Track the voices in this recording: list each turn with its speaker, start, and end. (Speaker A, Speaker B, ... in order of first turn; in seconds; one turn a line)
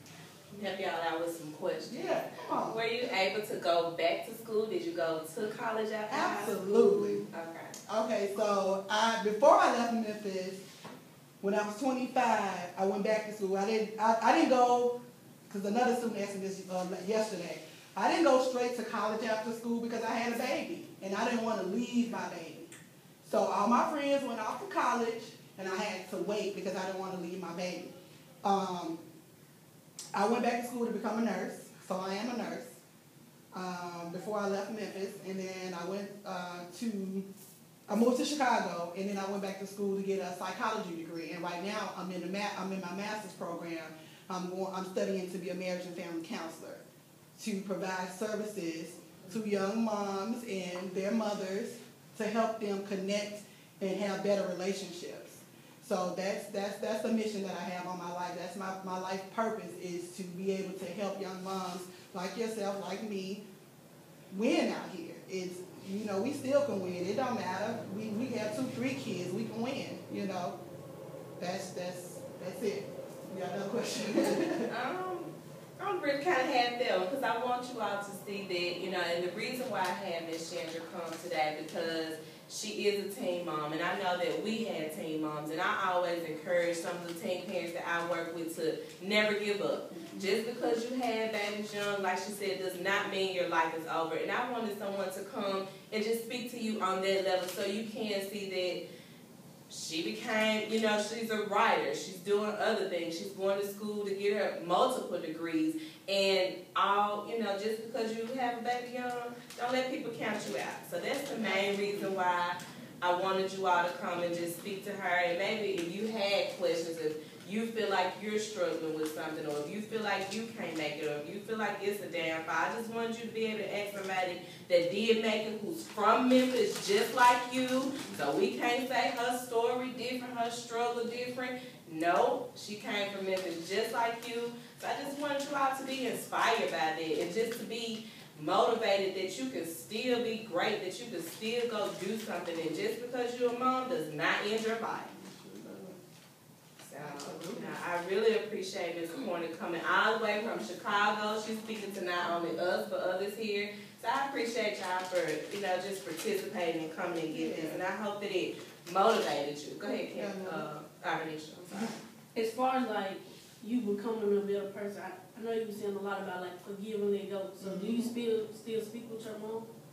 Speaker A: 0.5-7.7
Speaker B: 1.9-2.8
Speaker B: 6.1-7.2
Speaker B: 7.9-10.6
Speaker B: 11.4-14.9
Speaker B: 15.5-22.7
Speaker B: 23.2-29.0
Speaker B: 30.1-32.7
Speaker B: 33.5-37.3
Speaker B: 37.9-46.8
Speaker B: 47.3-63.4
Speaker B: 64.3-70.5
Speaker B: 71.4-74.7
Speaker A: 74.6-98.8
Speaker A: 99.7-145.1
Speaker B: 111.4-112.1
Speaker B: 145.1-146.0
Speaker A: 146.8-161.9
Speaker B: 147.0-147.8
Speaker B: 157.3-157.8
Speaker B: 160.1-160.7
Speaker C: 162.3-169.7
Speaker B: 167.6-168.1